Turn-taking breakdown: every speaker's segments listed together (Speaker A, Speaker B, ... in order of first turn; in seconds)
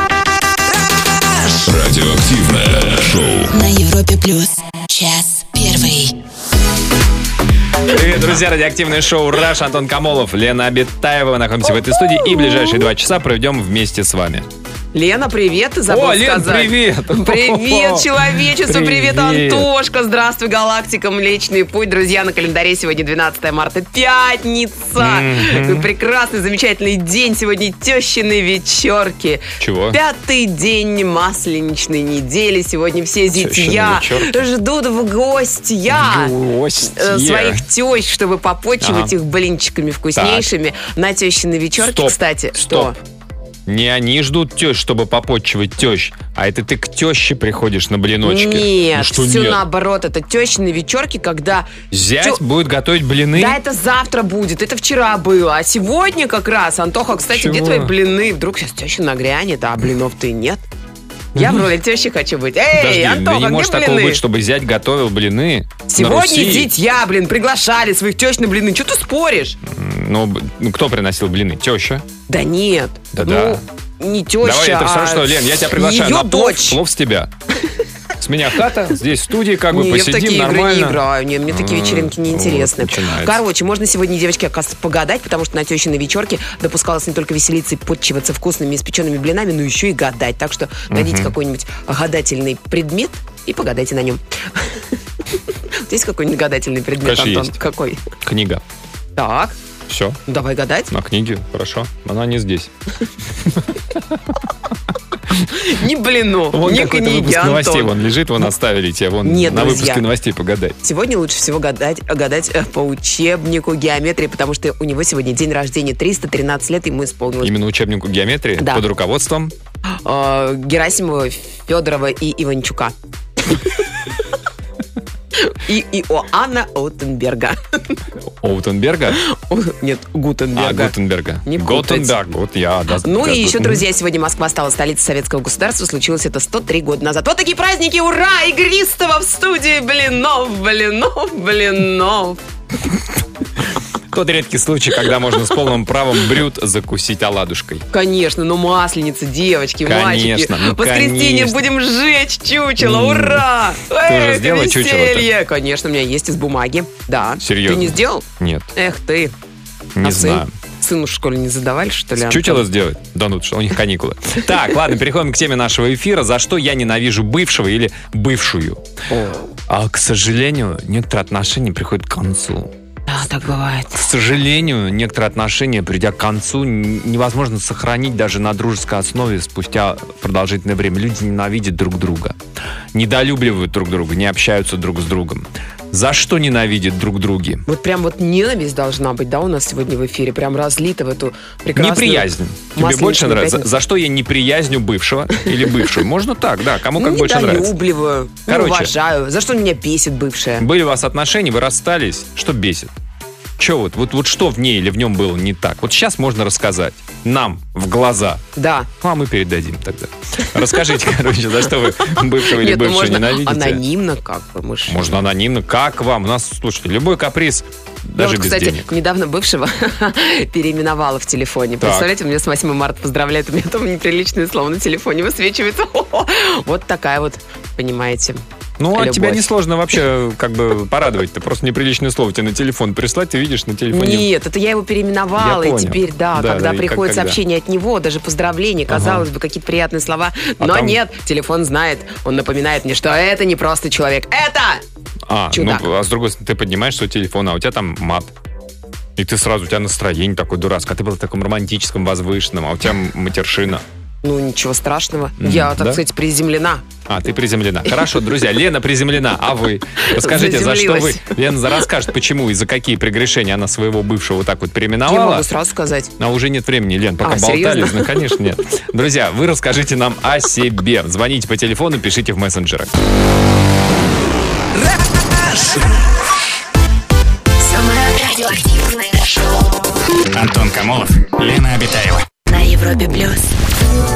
Speaker A: 1.4-3.5
Speaker B: 3.5-6.2, 277.6-279.9, 282.5-283.5
Speaker C: 7.9-14.5, 15.9-19.7, 25.0-25.9, 29.6-30.0, 33.3-34.5, 35.9-37.6, 38.8-39.1, 40.1-40.5, 41.8-42.9, 43.7-49.6, 51.9-53.6, 57.2-57.9, 61.4-61.7, 62.7-66.7, 69.7-72.1, 73.1-73.6, 74.4-77.3, 78.2-83.4, 90.9-91.3, 97.0-97.6, 98.2-98.6, 99.9-100.2, 100.9-102.7, 106.5-110.8, 117.4-119.5, 128.4-129.2, 130.6-133.8, 144.1-147.9, 149.8-151.7, 152.8-153.5, 154.0-155.3, 157.4-158.7, 160.0-160.5, 162.2-168.8, 169.7-172.7, 173.9-182.4, 182.9-187.7, 191.8-197.7, 198.5-198.9, 200.6-202.9, 203.6-208.4, 209.0-213.8, 214.9-218.9, 221.8-222.1, 228.8-234.3, 235.4-237.4, 238.9-239.3, 240.6-241.0, 245.3-248.3, 249.2-253.8, 255.4-256.0, 257.1-265.5, 266.2-273.0
Speaker D: 11.9-12.8, 14.9-43.0, 48.2-51.7, 53.4-60.6, 61.4-64.2, 65.9-69.6, 72.3-76.8, 79.7-94.9, 95.8-98.0, 99.2-99.6, 100.3-100.9, 105.5-107.9, 109.2-110.0, 110.8-117.5, 118.6-118.8, 120.0-123.0, 125.3-128.0, 129.1-132.2, 133.0-142.4, 147.9-158.2, 158.8-159.3, 160.0-162.7, 169.1-169.5, 173.1-174.0, 187.7-193.7, 197.0-200.7, 208.6-208.9, 212.1-215.2, 218.2-229.5, 233.9-244.8, 245.5-245.9, 254.2-256.9, 260.0-261.4, 265.1-266.1, 267.2-268.2
Speaker E: 280.3-282.3